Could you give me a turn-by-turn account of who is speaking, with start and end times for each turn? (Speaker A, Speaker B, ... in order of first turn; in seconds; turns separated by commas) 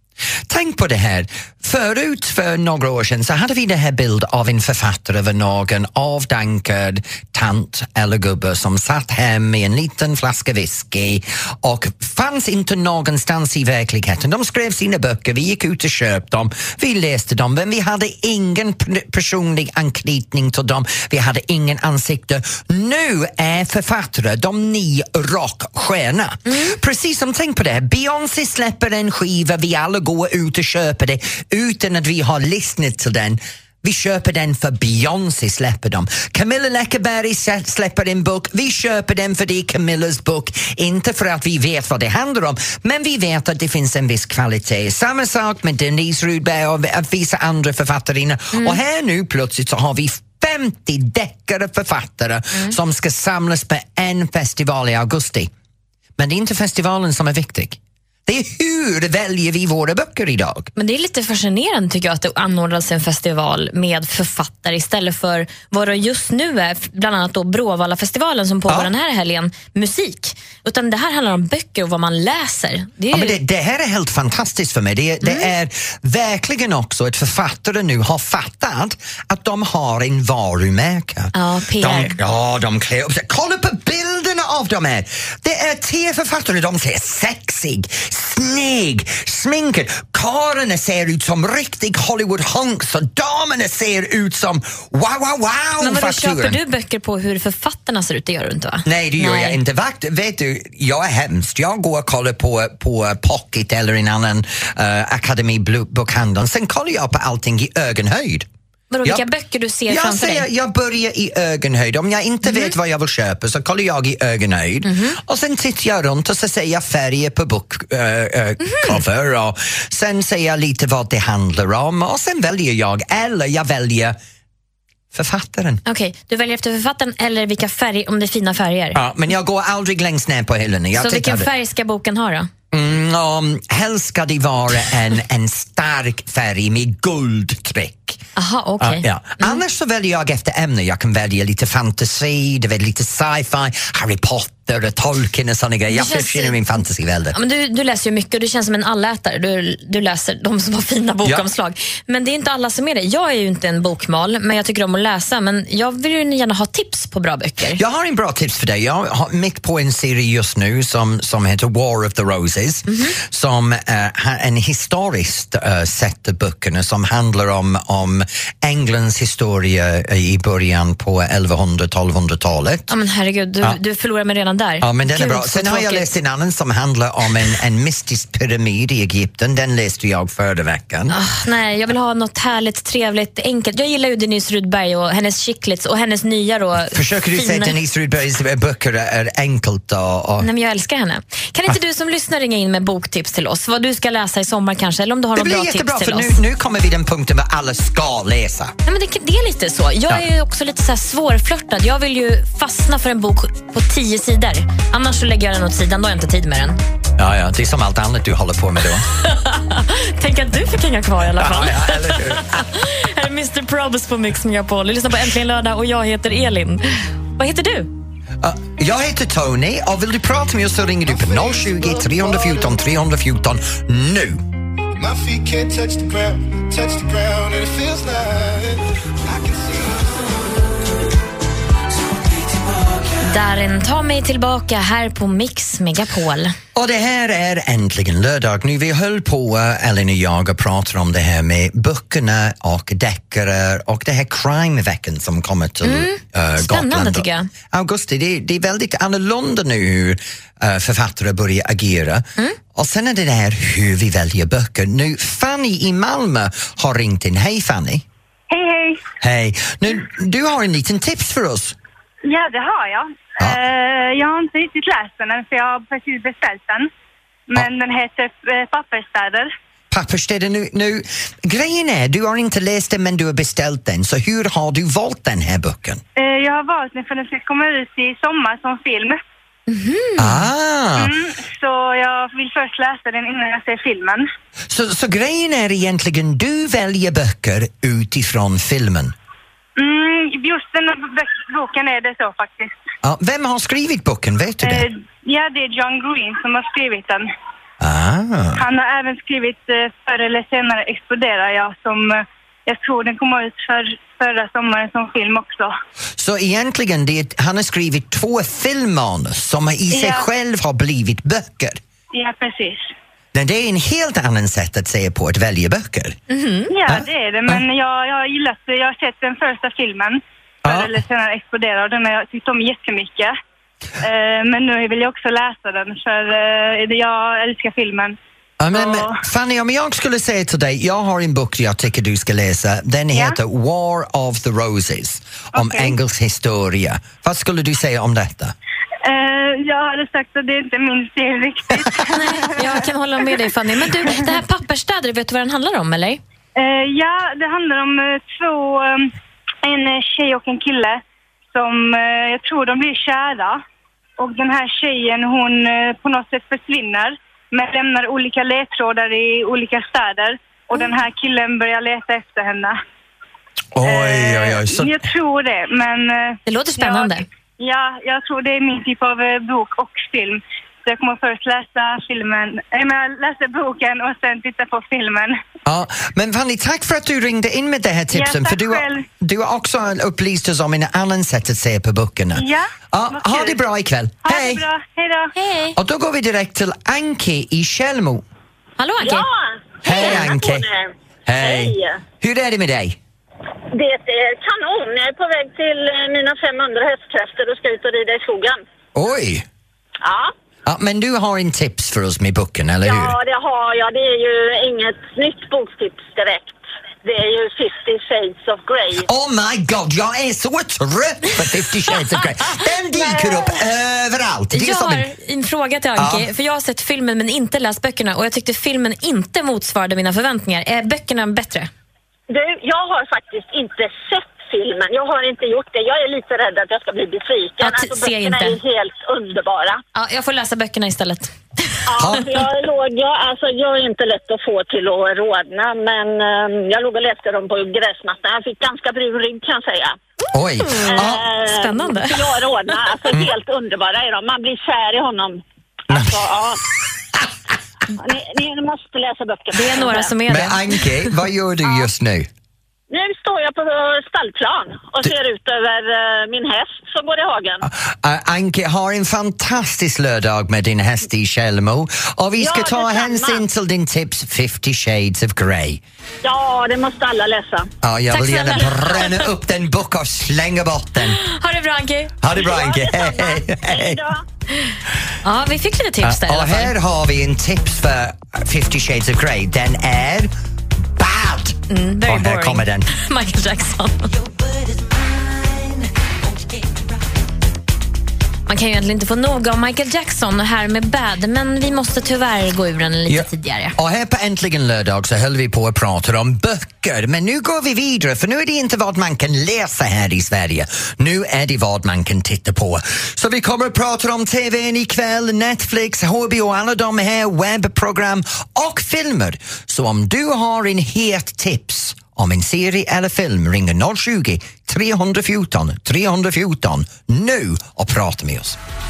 Speaker A: 0.5-55.5, Speaker B: 48.5-48.8, Speaker A: 56.2-60.7, Speaker B: 60.8-73.4, Speaker A: 73.1-96.6, Speaker B: 75.2-75.5, Speaker B: 81.3-82.2, Speaker B: 95.8-99.6, Speaker A: 98.8-108.5, Speaker B: 108.9-110.5, Speaker A: 109.9-124.2, Speaker B: 112.5-112.7, Speaker B: 114.8-115.2, Speaker B: 118.6-119.0, Speaker A: 125.1-125.8, Speaker B: 125.9-129.0, Speaker A: 128.9-131.5, Speaker B: 131.0-132.5, Speaker A: 132.7-138.2, Speaker B: 138.4-139.6, Speaker A: 138.8-147.3, Speaker B: 145.9-146.6, Speaker B: 147.3-157.8, Speaker A: 157.8-172.9, Speaker B: 162.9-163.2, Speaker B: 172.9-176.1, Speaker A: 174.8-181.2, Speaker B: 181.1-187.8, Speaker A: 186.9-190.5, Speaker B: 190.4-196.4, Speaker A: 195.3-198.7, Speaker B: 198.8-206.8, Speaker A: 207.2-209.1, Speaker B: 209.2-217.9, Speaker A: 211.4-212.7, Speaker A: 218.4-224.4, Speaker C: 225.0-230.3, Speaker B: 233.2-236.5, Speaker A: 236.8-258.1, Speaker B: 245.8-247.5, Speaker D: 258.5-259.0, Speaker A: 259.2-261.8, Speaker D: 262.2-266.9, Speaker D: 267.5-269.5, Speaker A: 269.9-276.0, Speaker D: 276.2-279.2, Speaker B: 279.7-280.5, Speaker A: 280.2-281.1, Speaker D: 281.0-284.3, Speaker A: 284.7-289.1, Speaker D: 289.8-292.7, Speaker A: 293.0-294.9, Speaker D: 294.6-297.3, Speaker A: 297.8-298.6, Speaker D: 298.6-305.7, Speaker A: 306.2-311.8, Speaker D: 309.9-310.2, Speaker D: 312.1-312.9, Speaker A: 313.3-316.2, Speaker B: 316.3-316.7, Speaker D: 316.7-323.4, Speaker A: 316.9-317.6, Speaker A: 320.6-320.9, Speaker D: 324.0-328.2, Speaker A: 328.6-338.5, Speaker D: 328.7-329.2, Speaker D: 335.6-335.9, Speaker D: 339.0-342.4, Speaker B: 342.1-346.2, Speaker D: 346.6-353.6, Speaker D: 354.2-362.8, Speaker A: 363.8-365.0, Speaker D: 363.8-375.4, Speaker B: 366.5-367.3, Speaker A: 375.7-384.6, Speaker D: 378.1-379.1, Speaker D: 382.4-383.6, Speaker D: 384.2-385.3, Speaker B: 385.4-385.8, Speaker A: 385.8-388.3, Speaker B: 388.8-389.3, Speaker E: 389.0-392.0, Speaker A: 389.8-390.7, Speaker B: 390.0-390.3, Speaker A: 391.3-393.0, Speaker E: 393.7-398.6, Speaker A: 398.9-399.5, Speaker E: 400.0-400.3, Speaker A: 400.6-403.2, Speaker E: 402.8-409.1, Speaker A: 409.1-415.1, Speaker E: 413.1-413.4, Speaker B: 414.5-421.7, Speaker A: 416.0-416.3, Speaker E: 422.3-429.8, Speaker B: 427.6-428.6, Speaker B: 429.9-431.3, Speaker E: 431.9-440.0, Speaker A: 432.0-432.3, Speaker A: 440.3-441.3, Speaker B: 440.8-442.3, Speaker E: 440.9-446.6, Speaker A: 445.9-446.2, Speaker E: 448.0-450.1, Speaker B: 449.5-451.1, Speaker A: 450.3-452.3, Speaker E: 452.9-457.7, Speaker A: 457.6-465.8, Speaker E: 462.4-463.4, Speaker E: 466.2-467.7, Speaker A: 467.8-471.2, Speaker B: 468.1-469.3, Speaker B: 471.2-472.1, Speaker A: 472.2-474.0, Speaker E: 472.4-474.2, Speaker B: 475.2-476.7, Speaker A: 476.0-480.3, Speaker A: 481.0-482.9, Speaker B: 481.7-484.1, Speaker B: 488.5-493.8, Speaker A: 493.1-518.6